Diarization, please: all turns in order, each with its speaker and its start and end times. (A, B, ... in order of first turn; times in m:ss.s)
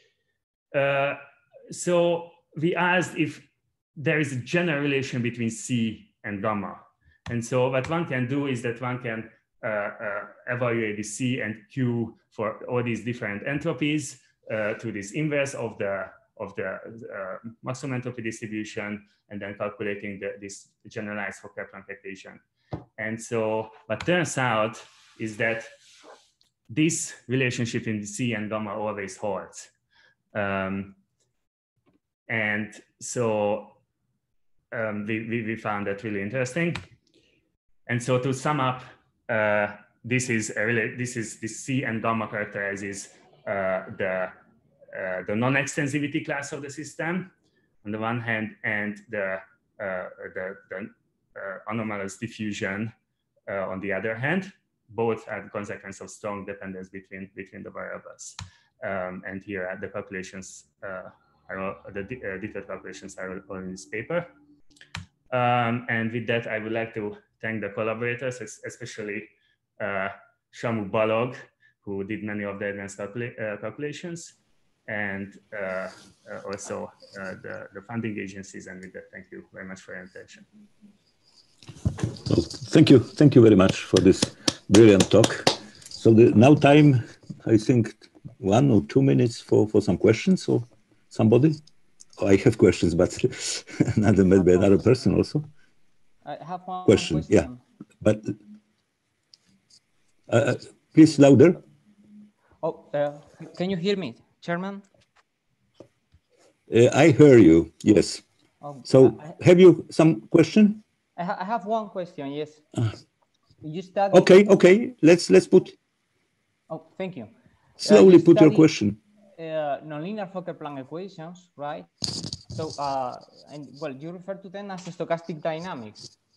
0:00.7-0:22.4 A
0:23.0-0:25.7 A
0:26.7-0:29.7 A
0:30.3-0:31.0 A
0:32.3-0:33.8 A
0:34.7-0:36.8 A
0:37.9-0:44.3 A
0:44.9-0:47.3 A
0:47.8-0:52.9 A
0:53.5-1:04.3 A
1:05.3-1:20.4 A
1:22.2-1:31.6 B
1:32.2-1:35.5 B
1:36.2-1:37.6 C
1:36.8-1:37.5 B
1:38.0-1:38.4 B
1:40.3-1:41.6 B
1:42.6-1:44.8 C
1:46.7-1:48.2 B
1:48.6-1:49.4 C
1:48.9-1:50.8 B
1:51.2-1:52.6 C
1:53.6-1:54.3 C
1:54.1-1:55.7 B
1:56.7-1:58.7 C
1:57.8-1:59.0 B
1:59.4-2:01.9 C
2:02.5-2:06.1 C